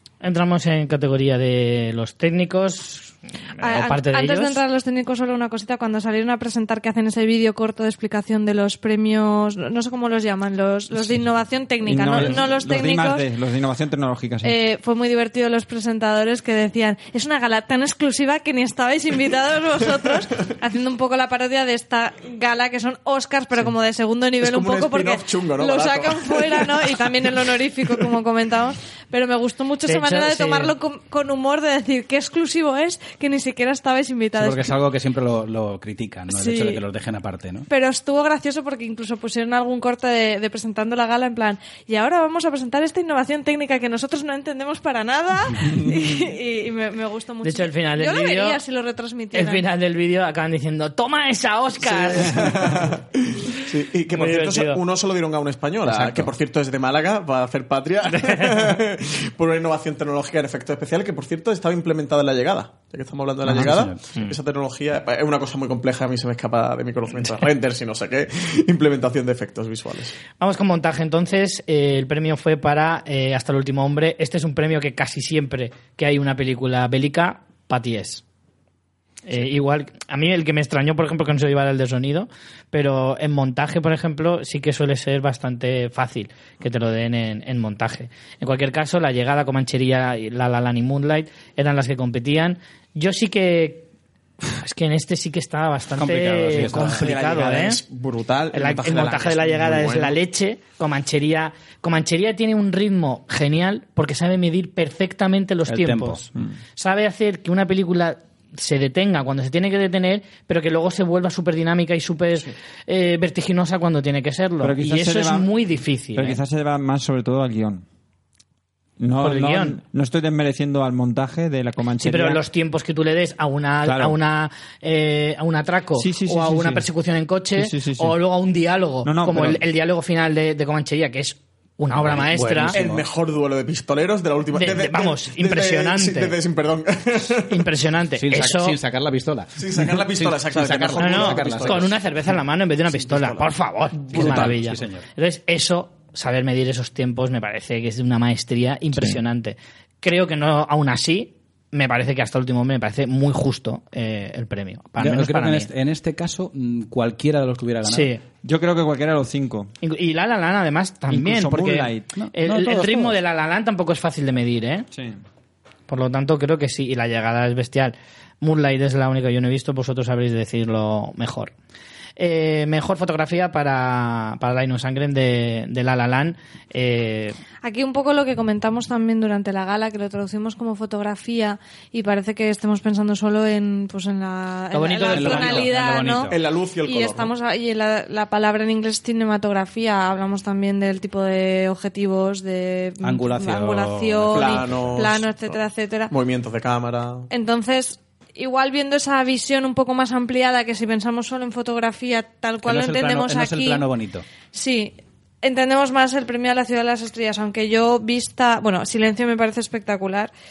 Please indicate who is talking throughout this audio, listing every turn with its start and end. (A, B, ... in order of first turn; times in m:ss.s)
0:00.2-0:04.6 A
0:03.6-0:13.3 B
0:11.8-0:14.6 C
0:14.4-0:34.7 B
0:24.4-0:27.3 D
0:29.9-0:30.7 A
0:34.4-0:37.7 E
0:36.3-0:36.8 B
0:37.7-0:49.6 B
0:45.6-0:46.2 D
0:47.4-0:48.6 A
0:49.3-0:52.9 A
0:51.8-1:10.2 D
0:53.5-0:54.8 A
0:55.9-0:56.3 E
0:58.2-0:58.6 A
1:03.4-1:04.2 E
1:10.4-1:18.2 A
1:19.3-1:33.9 A
1:34.5-1:37.8 A
1:36.0-1:37.2 E
1:36.6-1:40.2 D
1:38.5-1:56.4 A
1:45.7-1:46.3 E
1:54.6-1:55.5 C
1:56.2-1:57.8 C
1:59.0-2:02.4 C
1:59.2-1:59.8 A
2:02.0-2:12.8 A
2:03.8-2:04.2 C
2:06.0-2:06.9 C
2:07.6-2:08.2 C
2:09.0-2:09.6 C
2:12.0-2:13.1 E
2:12.7-2:17.7 D
2:14.5-2:16.4 A
2:17.5-2:18.8 A
2:18.2-2:21.9 E
2:19.6-2:22.0 D
2:21.0-2:35.7 A
2:23.0-2:23.5 D
2:24.1-2:24.6 D
2:24.1-2:25.1 E
2:35.0-2:38.1 E
2:37.8-2:38.2 A
2:38.4-2:39.7 C
2:39.8-2:44.9 A
2:41.1-2:42.1 C
2:42.2-2:43.2 E
2:44.9-2:45.2 C
2:45.9-2:51.5 A
2:52.2-2:57.4 A
2:57.6-3:06.3 B
3:04.7-3:05.7 A
3:05.0-3:06.4 E
3:06.3-3:07.3 D
3:06.8-3:16.1 B
3:13.0-3:15.0 E
3:14.3-3:15.6 D
3:16.1-3:17.3 D
3:17.3-3:23.9 B
3:22.6-3:24.2 E
3:24.5-3:30.3 B